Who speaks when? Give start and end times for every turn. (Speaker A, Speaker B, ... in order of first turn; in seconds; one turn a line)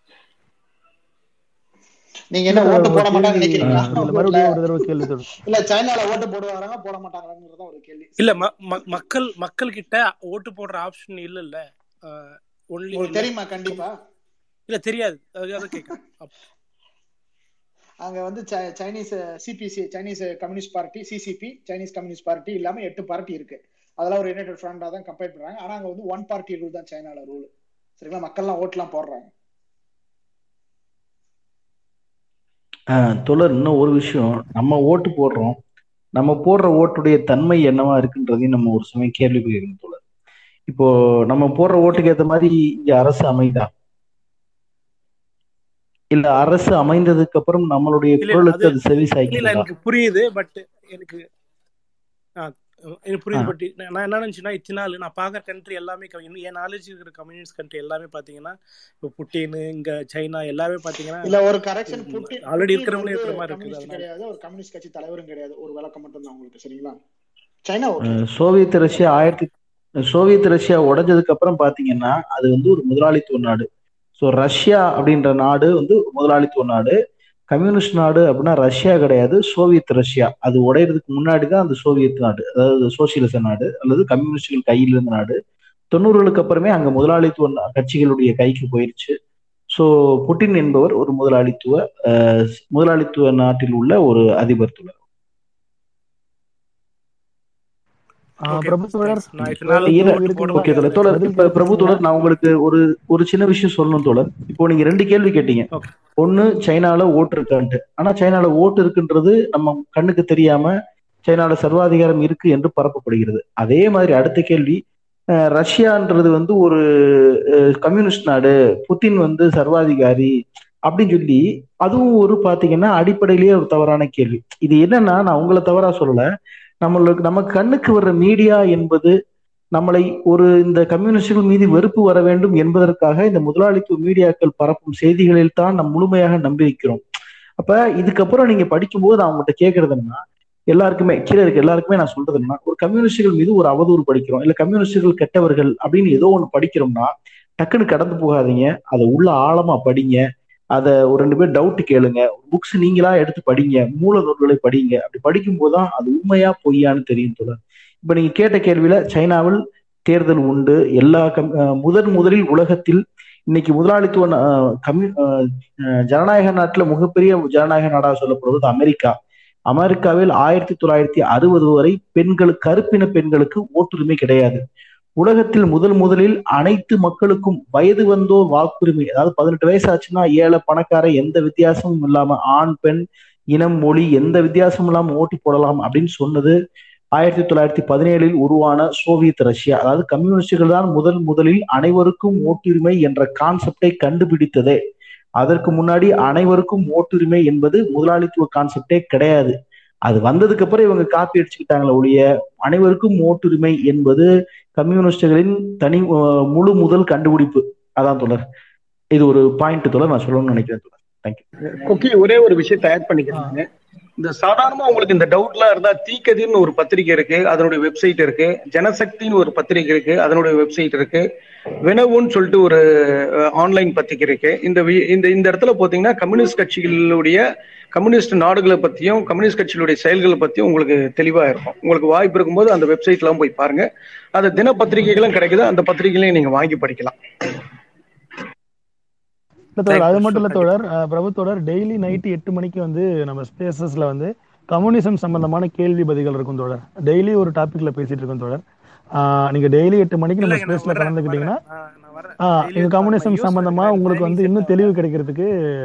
Speaker A: 2.3-4.8
Speaker B: 2.5-5.3
Speaker A: 5.4-8.2
Speaker C: 8.2-13.8
Speaker A: 12.9-13.9
Speaker C: 14.7-16.3
Speaker A: 18.0-27.5
Speaker A: 28.0-29.3
Speaker D: 32.9-35.6
Speaker D: 36.2-40.0
Speaker D: 40.7-43.7
Speaker D: 46.1-49.7
Speaker C: 48.2-48.8
Speaker C: 49.3-51.2
Speaker C: 52.4-64.0
Speaker A: 61.2-67.0
Speaker A: 67.6-68.2
Speaker D: 68.1-69.5
Speaker D: 70.1-73.7
Speaker D: 74.2-77.0
Speaker D: 77.5-85.4
Speaker D: 85.9-89.2
Speaker D: 89.7-94.9
Speaker B: 98.4-102.0
Speaker C: 98.5-101.0
Speaker D: 99.4-110.7
Speaker D: 111.2-114.8
Speaker D: 115.5-116.8
Speaker D: 117.8-120.3
Speaker D: 120.9-126.2
Speaker D: 126.8-129.1
Speaker D: 129.7-137.0
Speaker D: 137.6-150.2
Speaker D: 150.8-165.6
Speaker D: 166.1-169.1
Speaker D: 169.7-174.6
Speaker D: 175.2-186.6
Speaker D: 187.2-194.8
Speaker D: 195.4-199.5
Speaker D: 200.1-208.4
Speaker D: 209.1-211.4
Speaker E: 211.6-213.7
Speaker E: 214.2-221.2
Speaker E: 221.8-222.8
Speaker E: 223.6-227.4
Speaker E: 227.9-233.8
Speaker E: 234.3-237.6
Speaker B: 239.7-248.6
Speaker E: 239.9-240.2
Speaker C: 240.1-240.7
Speaker B: 249.2-251.6
Speaker C: 250.4-254.9
Speaker B: 252.4-255.5